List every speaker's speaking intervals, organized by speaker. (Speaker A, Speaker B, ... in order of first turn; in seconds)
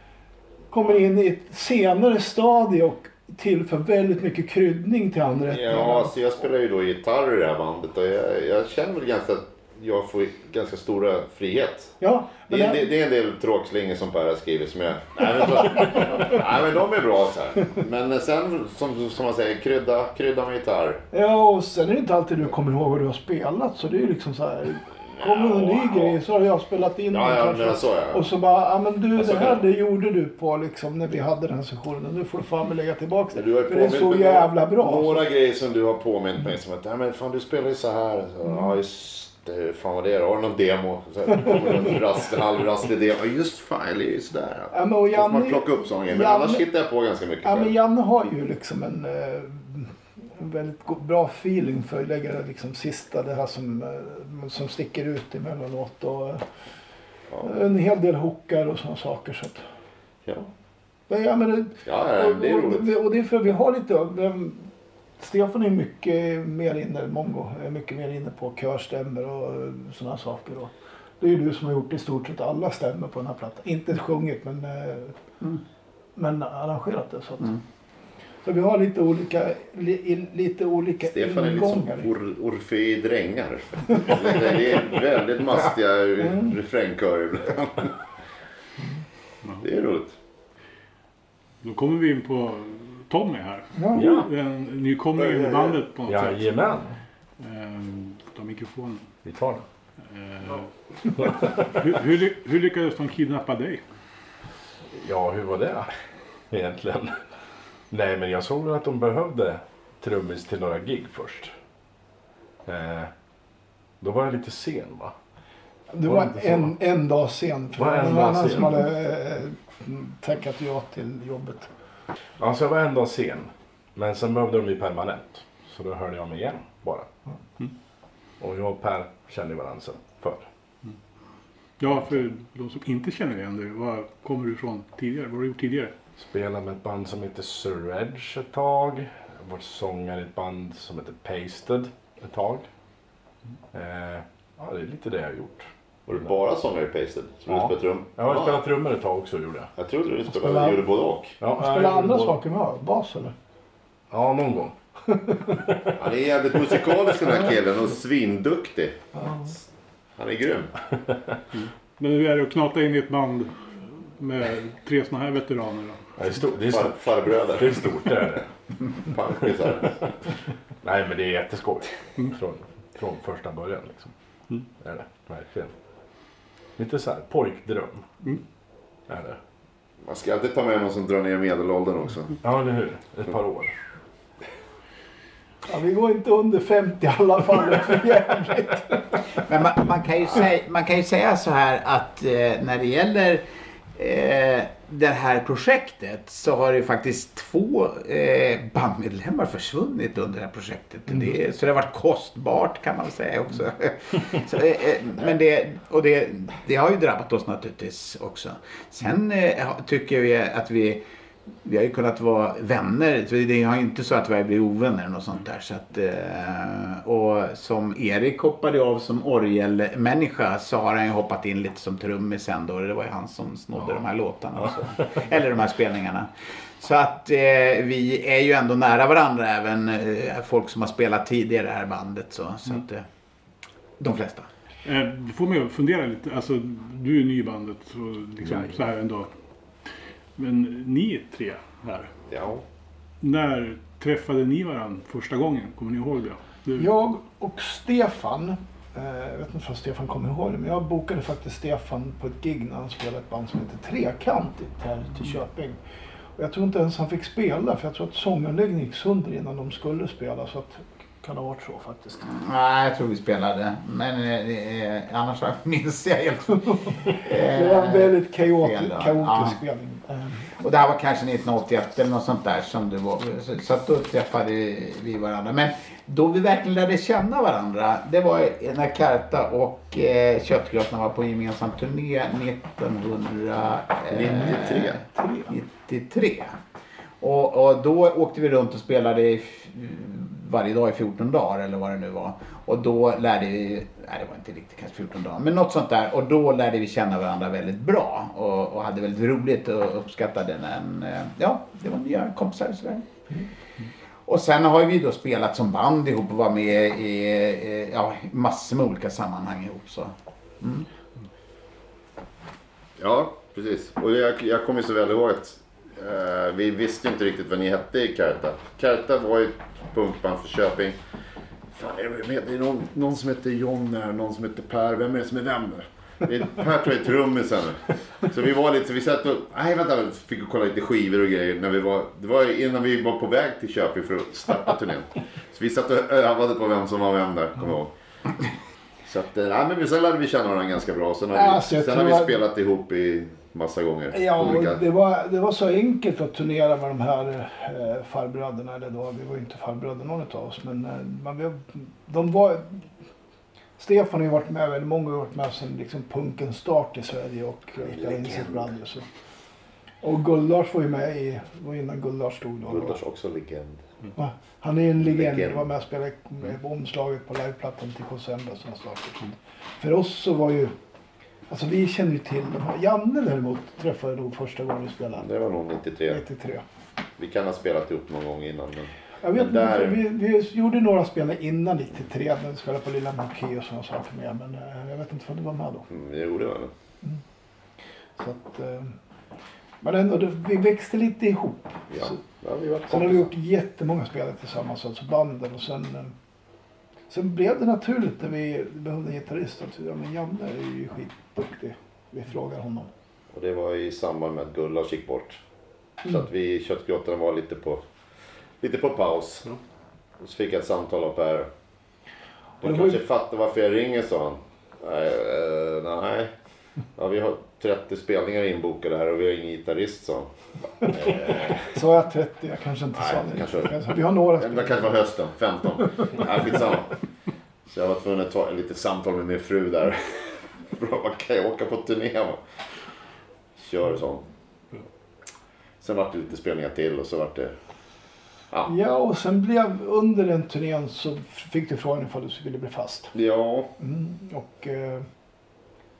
Speaker A: 0.7-6.1, 12.0-12.8, 21.1-35.2, 44.7-46.6, 47.4-56.4, 57.4-59.6, 61.1-75.2, 76.2-77.5, 78.4-82.1, 86.2-86.5, 93.7-94.0, 115.9-121.7, 150.3-150.8, 151.6-153.3, 159.2-159.4, 185.7-189.2, 246.8-255.8, 256.4-262.3, 267.3-270.4, 285.1-285.5, 341.3-342.4, 344.1-352.9, 353.8-359.0, 360.0-363.0, 364.1-369.2, 369.8-370.7, 371.5-375.2, 376.1-376.6, 379.2-385.9, 388.2-388.9, 389.8-392.2, 392.9-396.1, 397.1-402.9, 412.6-413.0, 421.7-424.9, 438.6-443.1, 443.8-445.1
Speaker B: 5.5-11.9, 12.5-21.0, 25.2-26.1, 27.1-28.2, 29.2-29.6, 33.3-47.7, 61.9-63.0, 81.0-87.9, 89.6-90.1, 146.1-148.6, 149.8-151.4, 156.0-159.0, 160.2-160.7, 166.6-167.9, 169.1-169.9, 180.0-182.4, 242.3-242.6, 284.1-285.0, 313.0-321.0, 321.7-337.9, 339.1-344.8, 357.9-358.7, 362.7-363.8, 365.0-365.6, 375.2-376.2, 377.2-380.0, 385.9-386.7, 391.9-393.3, 403.3-405.4, 406.0-407.8, 408.6-409.5, 410.2-411.5, 412.6-416.3, 416.9-421.7, 422.9-426.9, 427.7-432.4, 433.6-434.2, 435.8-437.5, 443.1-443.7
Speaker C: 91.6-96.7, 97.4-99.2, 100.0-100.7, 101.2-103.8, 131.8-135.9, 161.5-166.1, 234.8-239.3, 240.3-242.1, 243.2-246.9
Speaker D: 93.9-94.3, 96.0-96.9, 99.2-99.6, 101.2-101.6, 104.9-105.9, 106.5-107.2, 107.9-111.5, 112.6-113.1, 114.0-115.1, 116.0-116.7, 117.7-118.8, 122.4-127.1, 128.4-130.4, 136.2-142.7, 143.7-146.3, 147.5-149.7, 151.4-152.3, 154.1-154.7, 155.4-155.9, 166.2-168.5, 169.7-169.9, 170.8-174.1, 174.7-175.7, 176.8-178.1, 179.1-179.4, 182.4-183.7, 238.4-238.8
Speaker E: 189.4-193.4, 193.9-211.0, 211.6-233.0, 234.0-234.5, 262.2-269.6, 270.6-286.6, 287.2-303.1, 304.2-310.9